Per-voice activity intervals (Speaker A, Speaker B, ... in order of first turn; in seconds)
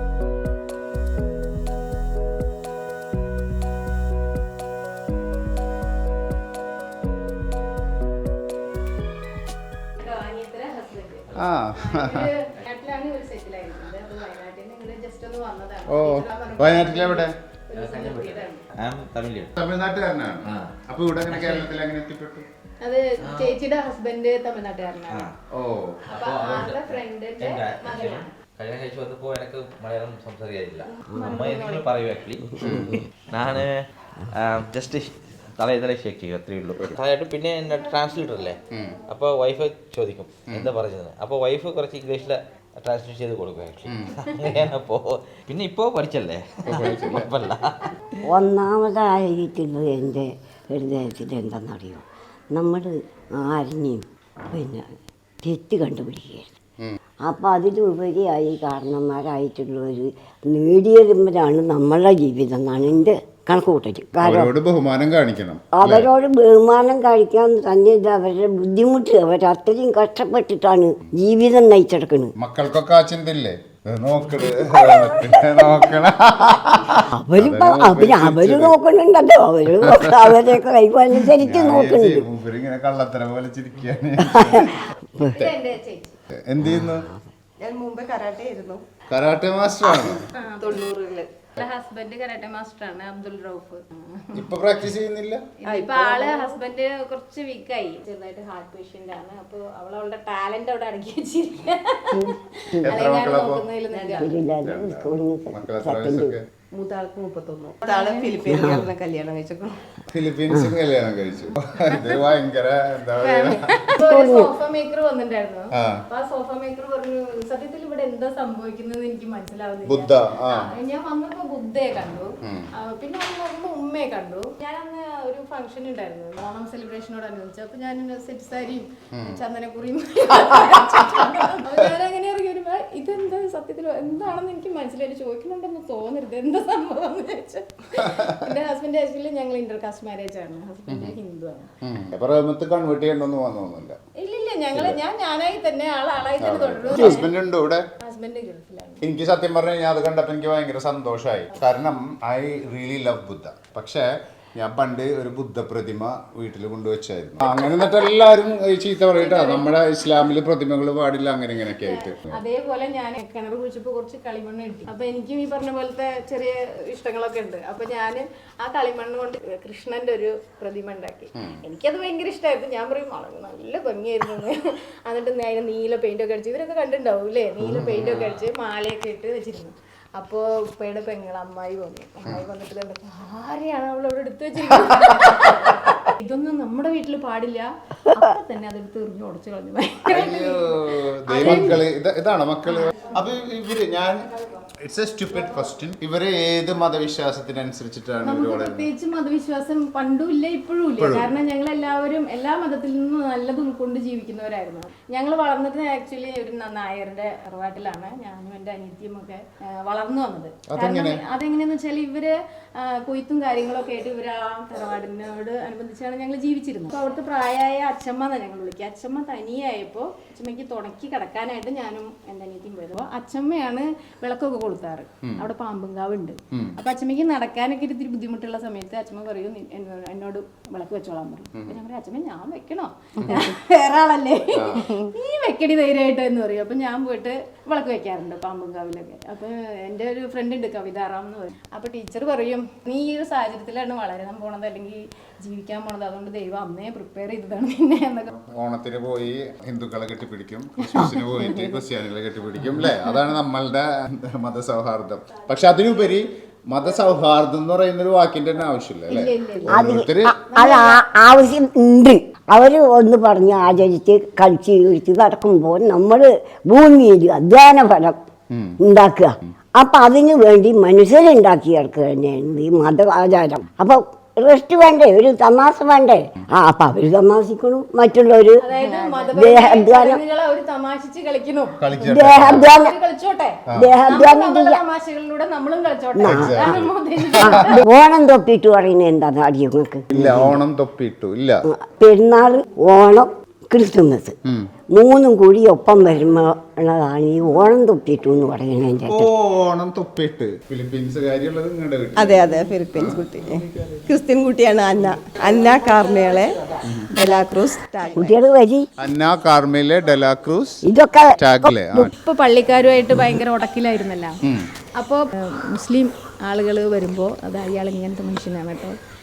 Speaker A: 10.0-18.7, 22.8-25.3, 26.1-28.3, 30.9-31.9, 85.3-86.2, 90.3-90.9, 91.6-94.6, 95.6-104.4, 107.8-108.5, 111.9-112.2, 113.1-141.7, 144.2-147.3, 148.0-149.0, 159.1-160.2, 161.7-191.8, 192.7-193.2, 198.2-248.3, 250.8-251.8, 259.1-259.8, 260.5-261.0, 278.6-287.9, 312.0-314.4, 315.0-318.9
Speaker B: 11.3-12.3, 15.9-17.3, 19.6-22.5, 25.5-26.0, 32.6-33.0, 38.7-39.0, 43.9-44.2, 46.6-47.3, 64.2-66.1, 72.4-78.8, 79.8-80.4, 81.3-85.5, 86.3-87.0, 89.1-90.3, 94.3-95.4, 102.8-103.7, 104.6-106.4, 110.1-113.7, 115.7-116.0, 119.8-120.7, 122.4-122.7, 129.1-129.4, 138.0-138.5, 140.9-141.1, 141.8-144.0, 144.7-145.0, 146.4-147.8, 149.0-162.4, 171.3-171.6, 177.7-178.2, 190.1-194.3, 194.8-198.9, 201.0-201.3, 210.7-211.2, 226.5-226.8, 234.5-234.9, 248.3-260.4, 268.5-268.8, 281.8-282.7, 286.2-287.8, 290.1-291.6, 294.4-294.7, 299.1-303.2, 306.8-307.1, 309.0-310.8, 311.4-312.1
Speaker C: 17.7-19.5, 20.4-20.7, 21.3-21.7, 23.2-23.6, 25.1-25.4, 26.1-47.9, 178.1-178.4
Speaker D: 31.1-31.4, 32.6-33.0, 48.2-54.9, 55.4-56.5, 57.2-64.5, 65.7-72.3, 77.1-82.2, 84.2-85.5, 86.6-87.3, 102.1-103.0, 104.1-106.3, 108.5-108.9, 110.5-110.8, 114.0-114.5, 146.9-147.2, 259.7-268.2, 268.8-278.7, 279.3-280.2, 282.0-283.0, 283.7-284.8, 286.1-286.8, 287.4-290.6, 291.7-294.3, 294.9-299.3, 308.1-308.9, 310.8-312.0
Speaker E: 87.6-88.8, 90.6-91.3, 95.6-96.6, 103.9-104.2, 106.7-109.8, 278.8-279.3, 302.1-306.6, 307.1-308.3